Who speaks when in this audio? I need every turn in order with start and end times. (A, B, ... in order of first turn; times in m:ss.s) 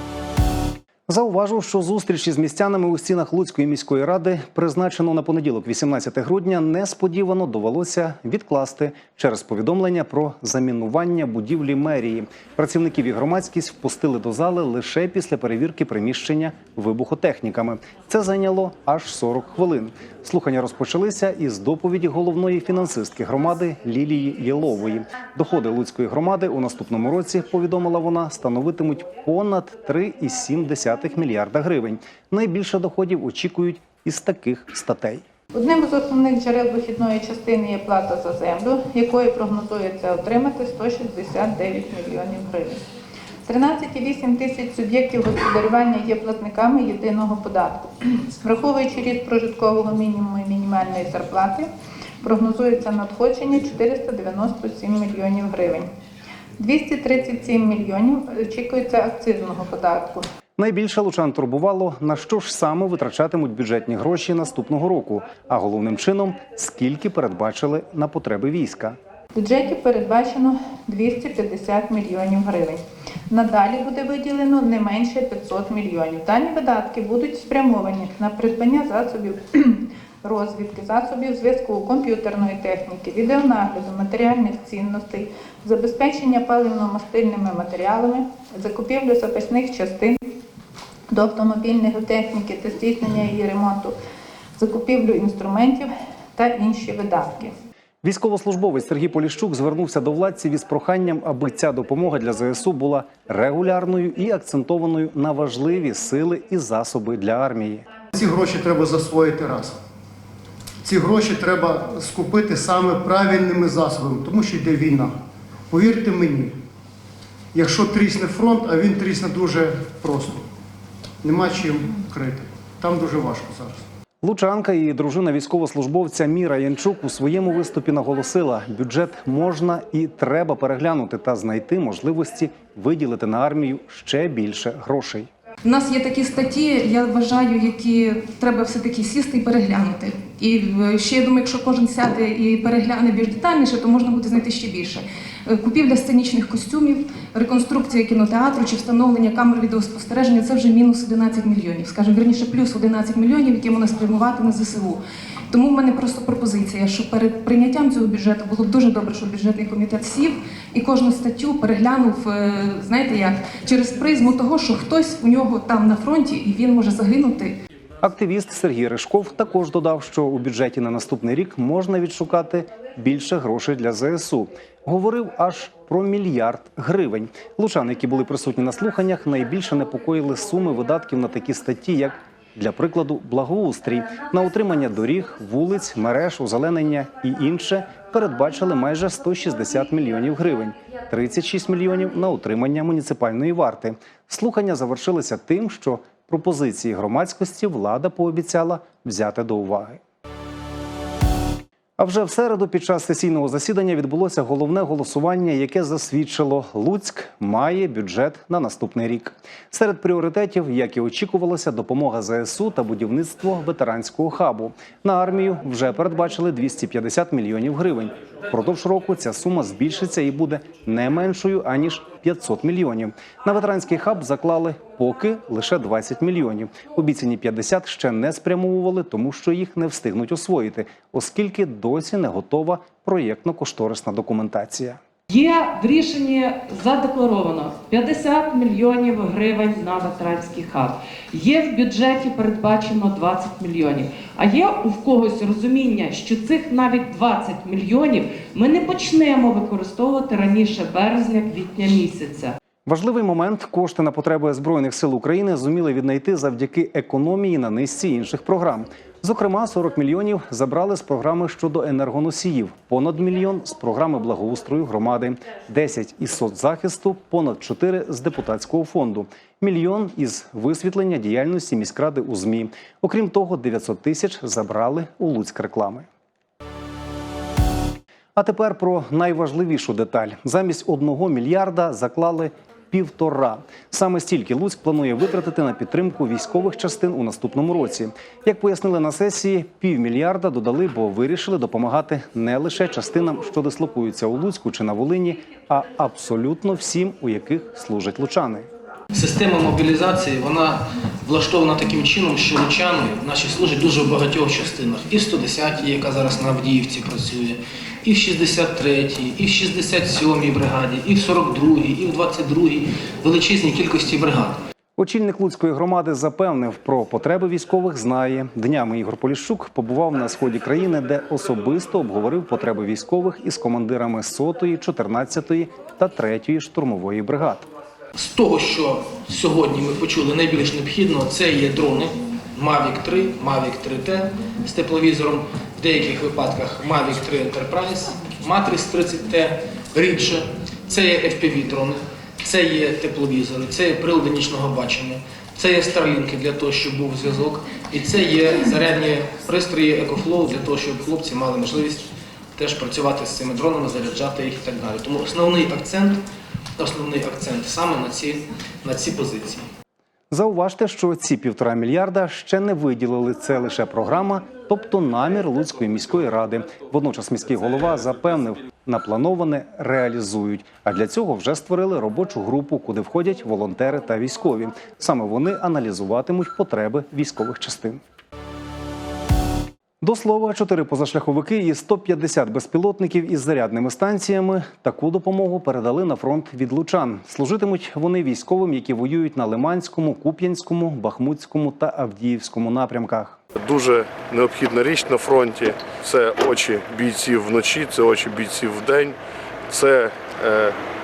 0:01.1-0:35.2 A
0:35.6-0:42.8 B
0:43.5-0:51.7 B
0:52.2-0:55.9 B
0:56.6-1:00.2 B
1:00.6-1:09.0 A
1:09.4-1:30.2 B
1:31.1-1:33.9 B
1:34.6-1:37.5 B
1:38.0-1:47.8 A
1:48.2-1:49.8 C
1:50.8-1:55.1 C
1:55.7-1:56.5 C
1:57.5-2:00.4 C
2:01.2-2:03.7 C
2:04.2-2:15.3 A
2:15.6-2:35.0 D
2:35.5-2:47.6 D
2:48.0-3:20.0 A
3:22.0-3:55.0 A
3:55.3-4:12.6 E
4:12.9-4:36.1 A
4:38.4-4:58.7 A
4:59.1-5:14.6 F
5:15.0-5:27.7 A
5:28.2-5:56.2 F
5:56.8-5:59.6 F
6:00.3-6:18.0 A
6:20.0-6:33.4 A
6:33.6-6:39.2 G
6:39.7-6:40.8 G